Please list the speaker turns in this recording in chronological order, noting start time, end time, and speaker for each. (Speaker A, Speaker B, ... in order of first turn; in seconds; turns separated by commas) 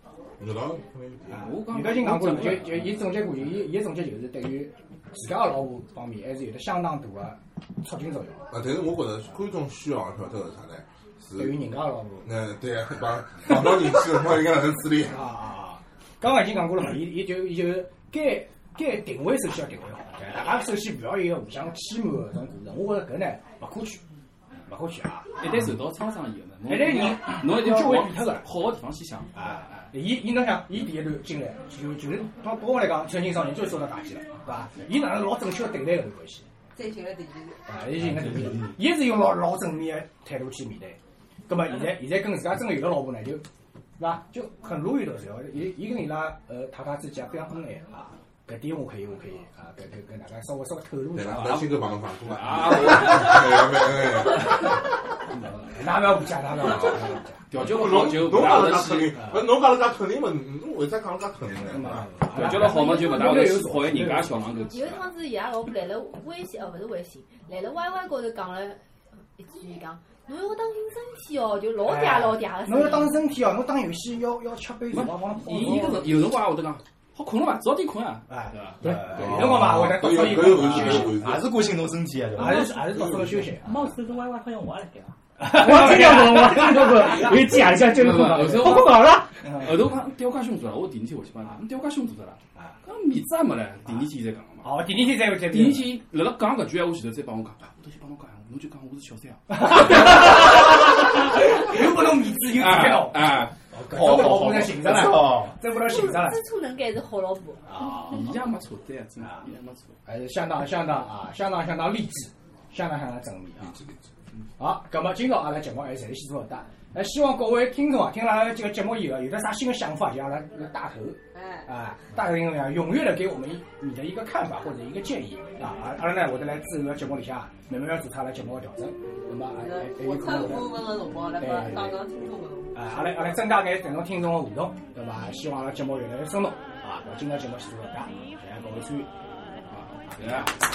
Speaker A: 0.4-1.6, Speaker B: 1.3-8.4, Speaker C: 1.3-3.0, Speaker A: 8.5-11.7, Speaker B: 11.3-12.3, Speaker A: 12.2-15.3, Speaker B: 15.1-24.0, Speaker B: 24.7-25.3, Speaker C: 25.4-29.9, Speaker B: 26.6-28.5, Speaker B: 29.3-36.5, Speaker D: 36.7-37.6, Speaker B: 37.6-43.5, Speaker E: 37.9-38.8, Speaker B: 44.0-51.8, Speaker A: 51.1-54.7, Speaker C: 52.3-53.5, Speaker B: 54.4-57.5, Speaker A: 56.7-56.9, Speaker C: 57.5-59.2, Speaker A: 57.5-62.2, Speaker B: 59.1-59.4, Speaker B: 61.7-64.4, Speaker C: 62.3-65.1, Speaker F: 64.7-68.8, Speaker F: 69.4-73.2, Speaker B: 71.8-76.1, Speaker C: 74.9-79.6, Speaker B: 78.3-81.2, Speaker G: 78.8-79.6, Speaker A: 79.6-81.5, Speaker E: 80.8-82.9, Speaker B: 82.3-83.7, Speaker G: 82.4-89.3, Speaker B: 85.4-87.3, Speaker C: 87.7-94.8, Speaker B: 89.4-89.8, Speaker B: 94.6-96.0, Speaker C: 95.4-100.6, Speaker B: 99.5-106.4, Speaker C: 101.5-101.8, Speaker C: 102.4-103.5, Speaker E: 103.9-105.6, Speaker F: 105.7-107.7, Speaker B: 107.7-108.3, Speaker C: 107.7-110.0, Speaker B: 110.0-113.8, Speaker A: 113.6-114.1, Speaker B: 114.6-132.0, Speaker D: 121.3-121.7, Speaker D: 129.6-132.7, Speaker B: 132.7-139.1, Speaker C: 139.7-140.6, Speaker B: 140.0-140.6